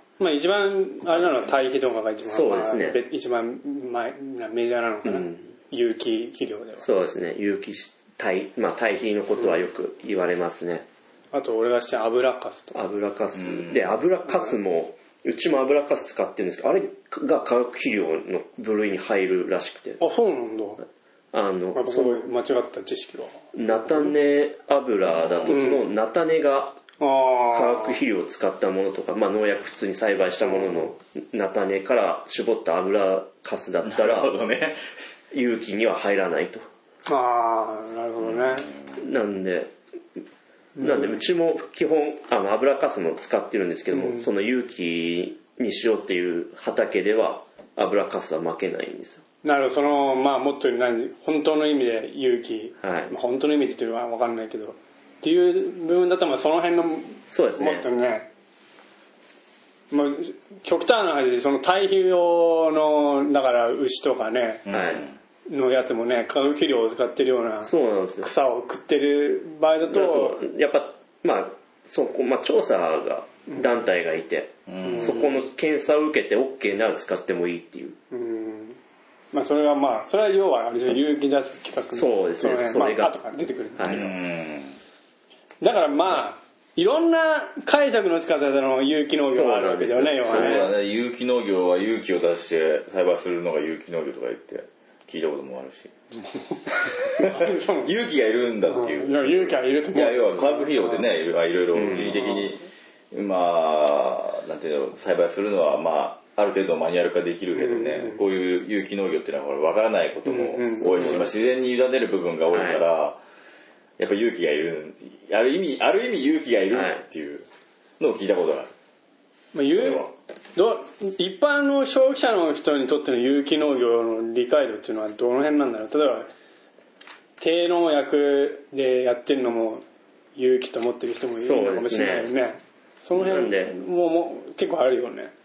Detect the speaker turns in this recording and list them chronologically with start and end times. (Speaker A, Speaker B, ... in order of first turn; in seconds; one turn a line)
Speaker A: 0.2-6.8
Speaker B: 2.2-3.0
Speaker B: 5.0-5.5
Speaker B: 6.8-10.8
Speaker A: 11.3-12.8
Speaker B: 12.7-20.0
Speaker C: 13.3-13.8
Speaker A: 20.0-20.8
Speaker B: 21.3-22.3
Speaker A: 21.7-24.1
Speaker B: 23.5-26.8
Speaker C: 25.0-25.6
Speaker A: 25.5-25.8
Speaker A: 27.0-28.0
Speaker B: 27.5-34.3
Speaker A: 30.4-30.9
Speaker C: 33.8-34.9
Speaker B: 35.3-36.7
Speaker A: 37.0-38.7
Speaker C: 38.2-39.0
Speaker B: 39.0-39.7
Speaker A: 40.8-41.2
Speaker B: 40.8-49.2
Speaker A: 43.9-44.3
Speaker A: 49.4-58.3
Speaker B: 52.8-53.1
Speaker B: 57.3-57.9
Speaker A: 59.9-64.7
Speaker C: 64.7-65.2
Speaker B: 64.7-65.0
Speaker A: 65.5-70.4
Speaker B: 67.6-68.3
Speaker B: 69.8-78.0
Speaker C: 74.7-75.3
Speaker A: 74.8-75.3
Speaker A: 78.1-78.8
Speaker A: 79.3-84.1
Speaker B: 81.9-83.2
Speaker B: 83.8-84.1
Speaker C: 83.9-84.8
Speaker A: 85.6-90.7
Speaker B: 89.3-90.7
Speaker C: 90.2-95.9
Speaker A: 96.2-97.9
Speaker C: 96.7-113.2
Speaker A: 98.7-101.1
Speaker B: 101.7-102.3
Speaker A: 102.0-102.4
Speaker A: 107.5-108.2
Speaker A: 110.2-111.2
Speaker B: 112.5-112.8
Speaker C: 114.0-117.5
Speaker B: 116.7-117.0
Speaker C: 118.0-118.7
Speaker A: 119.5-126.3
Speaker C: 119.7-120.1
Speaker A: 127.4-129.8
Speaker A: 130.3-135.3
Speaker B: 131.4-132.3
Speaker B: 133.1-133.7